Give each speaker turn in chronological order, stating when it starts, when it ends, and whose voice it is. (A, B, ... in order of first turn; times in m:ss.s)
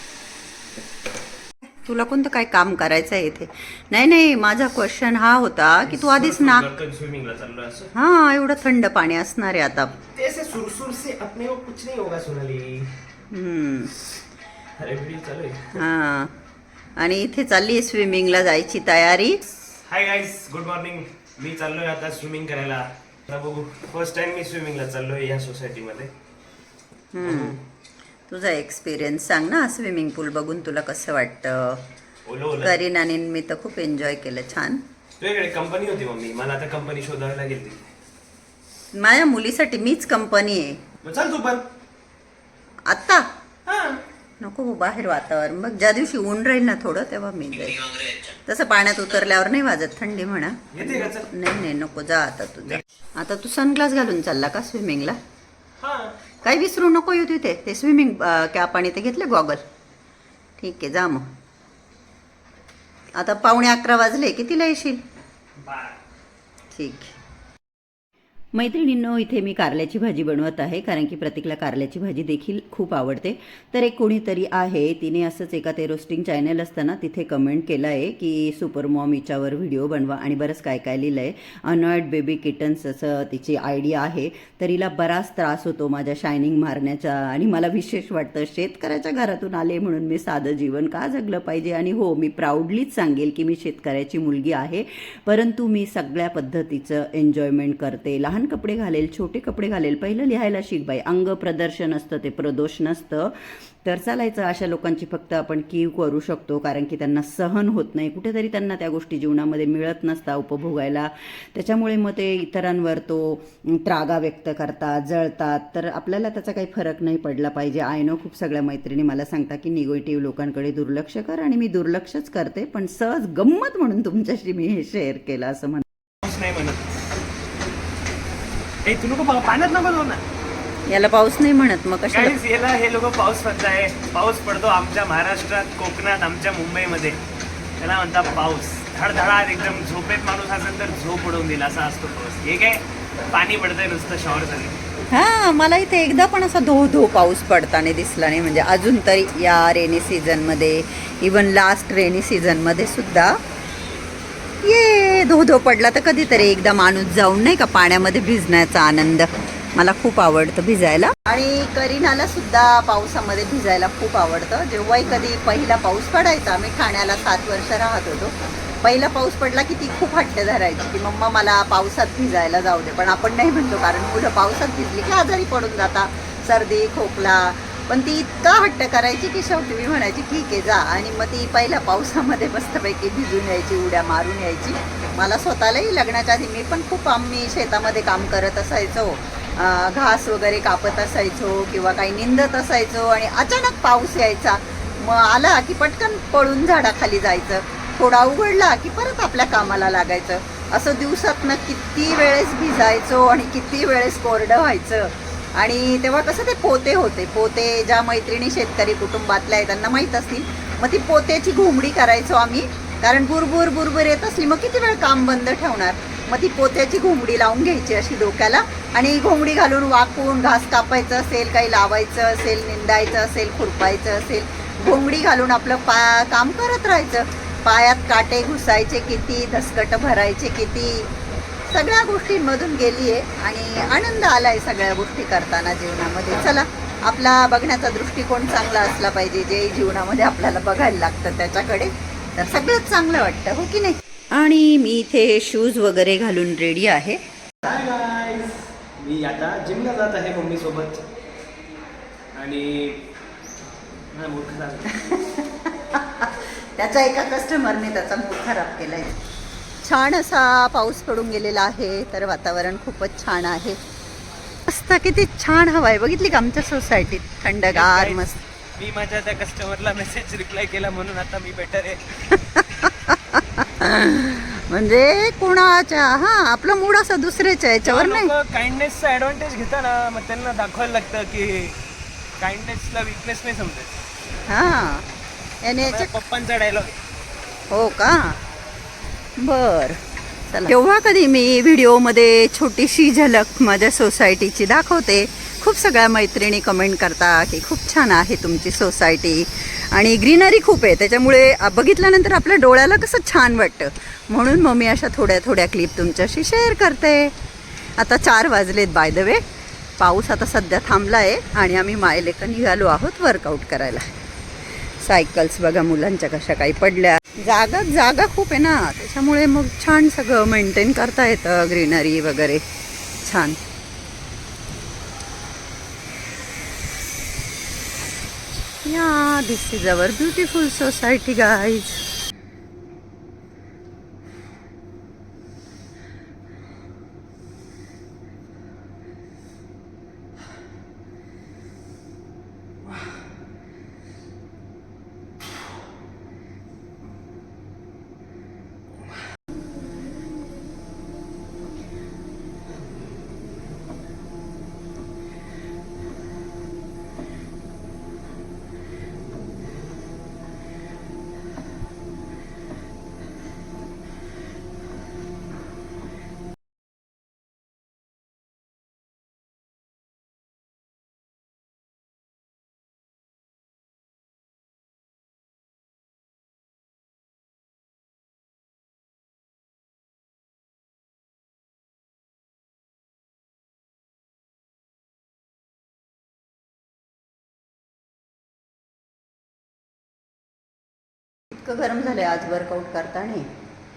0:01.7-0:06.7 A
0:05.8-0:07.9 B
0:07.9-0:10.0 A
0:10.1-0:12.9 B
0:13.3-0:14.0 A
0:14.8-0:15.7 B
0:15.7-0:16.4 A
0:17.0-0:19.4 A
0:19.8-0:26.1 B
0:27.1-0:27.6 A
0:27.2-0:27.6 B
0:28.3-0:31.8 A
0:32.2-0:32.8 B
0:32.6-0:34.8 A
0:35.2-0:37.9 B
0:38.9-0:40.8 A
0:41.0-0:41.6 B
0:42.8-0:43.3 A
0:43.7-0:44.0 B
0:44.4-0:55.2 A
0:50.7-0:51.3 B
0:55.8-0:56.1 B
0:56.4-0:59.6 A
1:00.6-1:01.3 A
1:03.1-1:05.0 A
1:05.6-1:06.0 B
1:06.7-1:07.1 A
1:08.5-2:05.8 A
2:06.2-2:06.8 B
2:08.8-2:10.2 B
2:10.9-2:12.4 A
2:12.1-2:17.2 B
2:17.8-2:24.8 B
2:25.1-2:33.4 A
2:34.6-3:51.1 A
3:51.7-4:07.2 A
4:07.6-4:11.0 B
4:12.3-4:13.1 B
4:14.1-4:15.0 B
4:14.9-4:19.2 A
4:19.8-4:23.8 A
4:24.7-4:28.4 A
4:27.7-4:28.2 B
4:28.8-4:32.1 B
4:32.3-4:38.3 A
4:37.8-4:41.8 B
4:42.4-4:43.9 B
4:44.5-4:45.0 A
4:45.6-4:46.2 A
4:45.8-4:47.0 B
4:47.7-4:48.4 A
4:49.4-5:07.4 A
5:08.0-5:09.4 A
5:10.0-5:14.1 A
5:14.8-5:22.7 A
5:23.2-5:23.6 A
5:28.8-5:32.0 A
6:31.5-6:33.5 A